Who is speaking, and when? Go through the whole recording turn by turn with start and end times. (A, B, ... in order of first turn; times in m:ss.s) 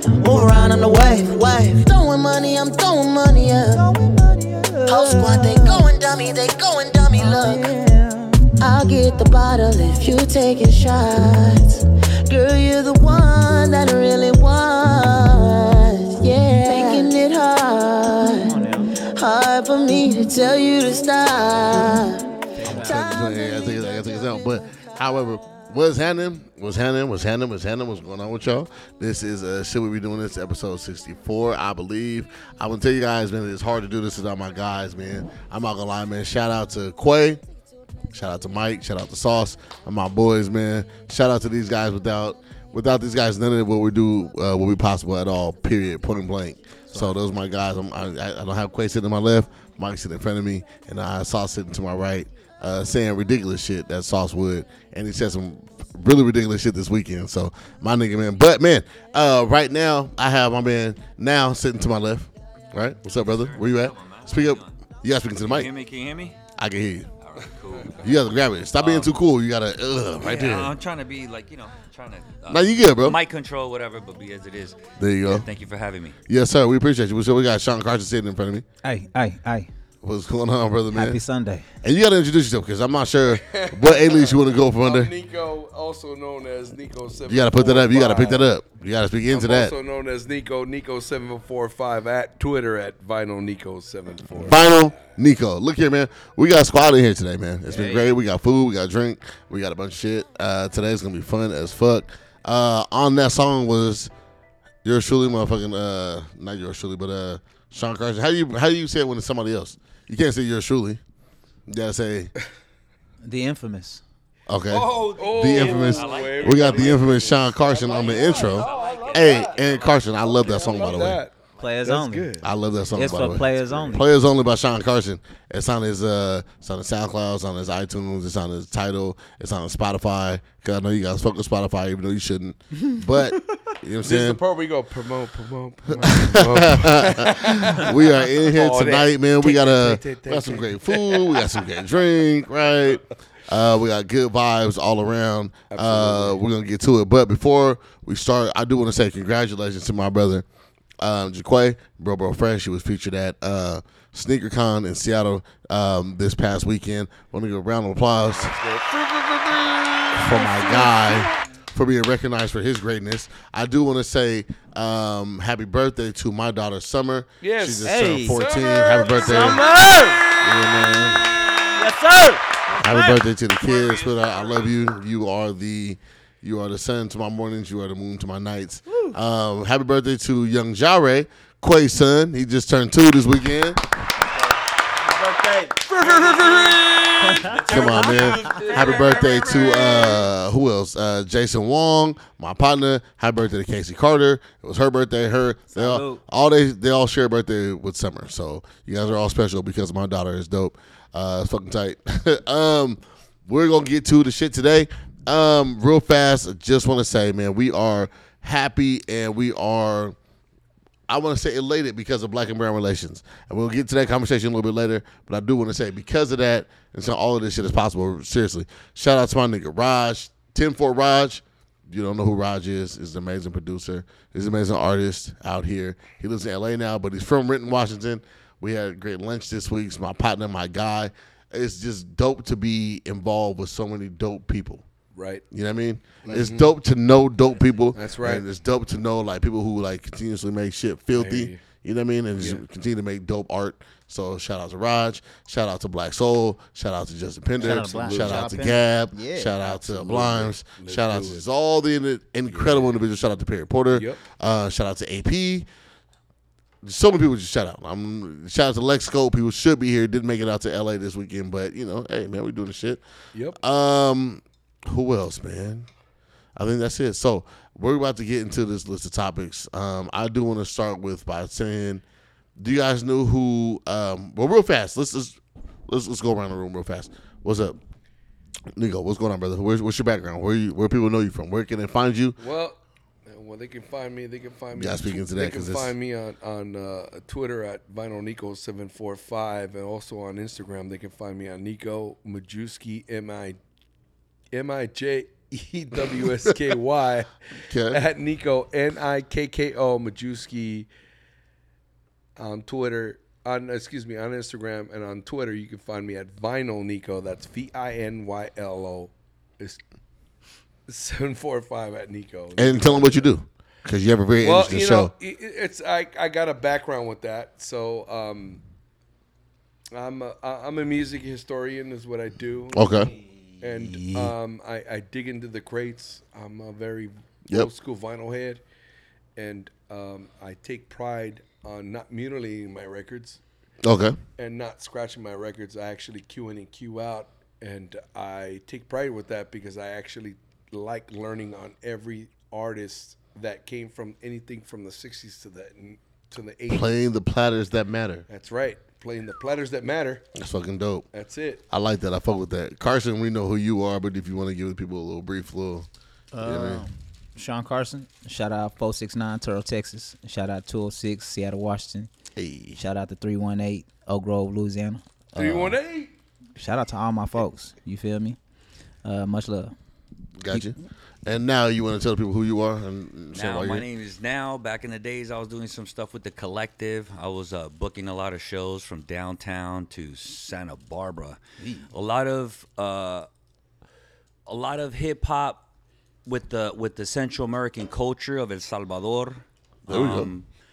0:00.2-0:03.9 A
0:03.7-0:05.9 B
0:04.9-0:07.7 A
0:07.1-0:08.6 B
0:08.6-0:23.5 A
0:16.7-0:17.0 B
0:18.4-0:18.9 B
0:22.6-0:23.1 B
0:22.6-0:37.4 C
0:38.1-1:05.7 C
0:46.9-0:47.2 B
1:03.1-1:04.8 D
1:05.4-1:06.4 D
1:06.5-1:07.1 C
1:07.2-1:08.0 D
1:08.0-1:10.7 C
1:08.8-1:09.2 D
1:10.2-1:16.2 D
1:12.5-1:13.2 C
1:15.0-1:15.5 C
1:16.3-1:18.6 C
1:18.8-1:19.7 B
1:20.0-1:21.2 C
1:20.9-1:21.6 B
1:21.8-1:25.1 C
1:23.2-1:28.5 E
1:27.3-1:29.7 C
1:29.3-1:34.9 E
1:34.4-1:44.1 C
1:37.7-1:38.2 B
1:44.8-1:51.0 C
1:51.7-1:52.3 C
1:53.2-1:54.0 B
1:54.5-2:01.2 C
1:54.7-1:57.1 D
1:54.7-2:02.5 E
1:57.9-2:00.8 D
2:01.6-2:02.3 B
2:02.4-2:14.4 C
2:02.9-2:04.0 B
2:03.6-2:04.0 E
2:14.0-2:21.6 E
2:15.9-2:30.4 C
2:25.7-2:26.4 E
2:31.0-2:38.5 C
2:38.3-2:40.4 E
2:40.1-2:49.6 C
2:40.3-2:41.1 B
2:47.4-2:51.7 E
2:47.8-2:48.4 B
2:49.2-2:50.2 B
2:50.4-2:51.3 C
2:51.7-2:52.4 B
2:52.7-3:03.8 C
2:52.8-2:54.9 D
2:58.9-2:59.2 B
3:05.0-3:05.8 B
3:05.8-3:10.2 E
3:06.0-3:06.8 D
3:07.2-3:07.6 B
3:07.4-3:10.1 D
3:07.7-3:30.2 C
3:15.7-3:16.2 B
3:31.1-3:54.8 C
3:55.1-3:55.4 E
3:55.5-4:15.7 C
3:56.2-3:56.7 E
3:57.9-3:58.4 E
4:01.1-4:01.6 E
4:07.6-4:09.8 B
4:07.8-4:08.4 E
4:09.8-4:11.4 E
4:12.5-4:12.9 E
4:13.9-4:14.2 E
4:16.8-4:23.0 C
4:23.6-4:25.9 C
4:26.6-4:32.0 C
4:32.6-4:37.8 C
4:38.7-4:42.4 C
4:42.4-4:53.6 E
4:44.7-4:45.9 C
4:54.5-5:00.9 E
4:56.2-4:56.5 C
4:57.7-4:58.0 C
5:02.4-5:09.8 E
5:10.9-5:13.3 E
5:12.6-5:15.1 C
5:14.4-5:18.6 E
5:19.9-5:22.9 E
5:22.7-5:23.1 C
5:23.6-5:28.6 E
5:23.8-5:24.3 B
5:29.4-5:33.4 E
5:33.8-5:34.2 C
5:34.4-5:46.9 E
5:46.7-5:48.2 C
5:48.3-5:50.2 E
5:50.4-5:51.0 C
5:51.1-5:51.6 E
5:51.7-5:55.9 C
5:56.3-6:02.1 B
5:56.4-5:56.8 C
6:02.4-6:02.8 C
6:02.8-6:05.8 B
6:05.4-6:06.1 E
6:06.6-6:08.4 B
6:09.0-6:09.7 B
6:10.4-6:13.9 C
6:13.3-6:21.4 D
6:21.6-6:21.9 B
6:21.9-6:23.3 D
6:24.5-6:25.6 D
6:26.2-6:30.4 D
6:29.9-6:30.3 C